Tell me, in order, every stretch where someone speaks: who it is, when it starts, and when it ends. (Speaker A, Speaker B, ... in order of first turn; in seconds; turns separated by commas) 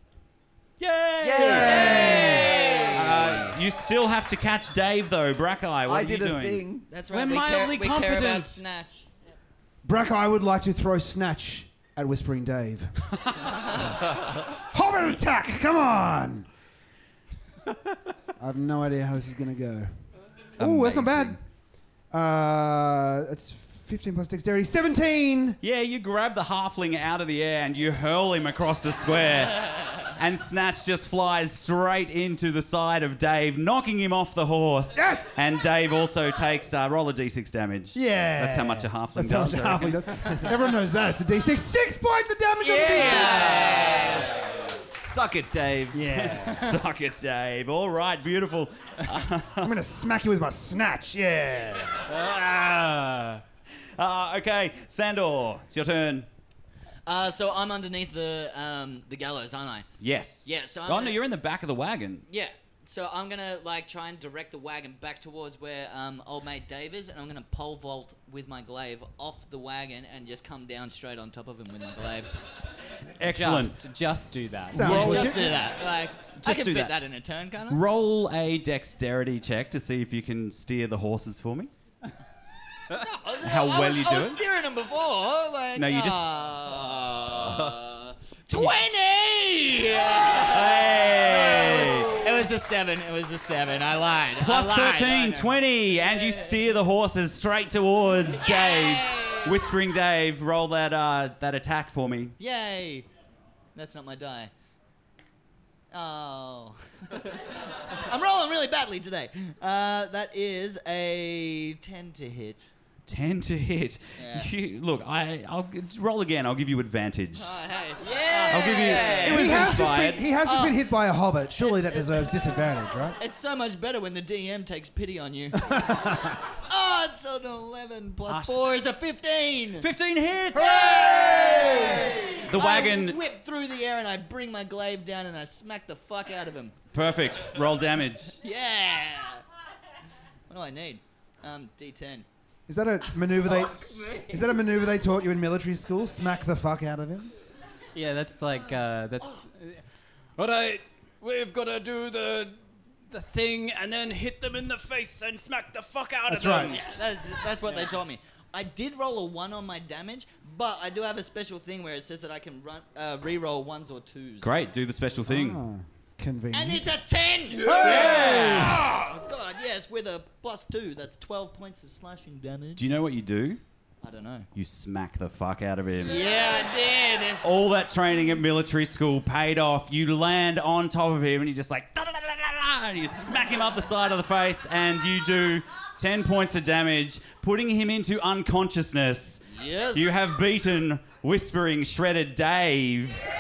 Speaker A: 0.8-6.7, Speaker B: 1.2-3.5, Speaker C: 1.4-2.6, Speaker D: 1.6-3.2, Speaker B: 5.9-6.9, Speaker D: 6.9-9.1, Speaker E: 7.1-8.6, Speaker C: 9.8-13.0, Speaker D: 13.5-14.0, Speaker C: 14.5-16.5, Speaker C: 18.4-19.9, Speaker C: 20.6-21.4, Speaker B: 20.6-21.4, Speaker C: 22.1-25.6, Speaker A: 25.6-40.4, Speaker C: 34.9-35.5, Speaker C: 37.9-43.6, Speaker B: 42.6-46.1, Speaker D: 42.9-44.4, Speaker A: 43.0-44.0, Speaker C: 45.9-46.8, Speaker A: 46.1-49.7, Speaker C: 49.6-52.1, Speaker E: 52.1-53.4, Speaker A: 54.0-56.3, Speaker D: 57.1-59.9, Speaker A: 60.0-62.3, Speaker D: 60.5-61.2, Speaker D: 62.3-72.3, Speaker A: 73.2-75.6, Speaker E: 73.2-75.1, Speaker C: 74.7-75.6, Speaker D: 74.8-77.8, Speaker A: 76.4-77.0, Speaker A: 77.7-81.7, Speaker D: 82.9-95.5, Speaker A: 83.4-84.4, Speaker A: 85.8-86.3, Speaker A: 90.3-92.2, Speaker A: 94.4-102.4, Speaker D: 98.3-99.6, Speaker D: 102.4-103.1, Speaker D: 103.8-104.5, Speaker D: 105.9-112.7, Speaker A: 113.1-117.6, Speaker D: 114.2-114.5, Speaker D: 117.4-120.8, Speaker E: 118.2-119.3, Speaker A: 118.5-120.3, Speaker C: 119.2-123.2, Speaker D: 121.9-122.2, Speaker D: 123.2-129.9, Speaker C: 125.7-126.4, Speaker A: 128.3-128.8, Speaker A: 129.8-133.2, Speaker D: 130.5-136.8, Speaker A: 136.9-138.4, Speaker D: 138.4-139.4, Speaker D: 140.5-142.2, Speaker C: 142.7-147.3, Speaker D: 143.5-144.6, Speaker E: 147.9-149.8, Speaker E: 150.4-152.6, Speaker E: 153.1-156.9, Speaker C: 156.3-156.8, Speaker D: 156.7-164.6, Speaker E: 157.6-158.0, Speaker A: 164.4-165.6, Speaker C: 165.3-166.9, Speaker D: 166.5-172.9, Speaker C: 167.6-168.8, Speaker B: 167.7-168.2, Speaker A: 167.8-168.8, Speaker A: 172.8-173.6, Speaker D: 174.0-174.5, Speaker A: 174.6-176.3, Speaker D: 176.1-177.4, Speaker A: 177.4-193.3, Speaker D: 189.5-190.1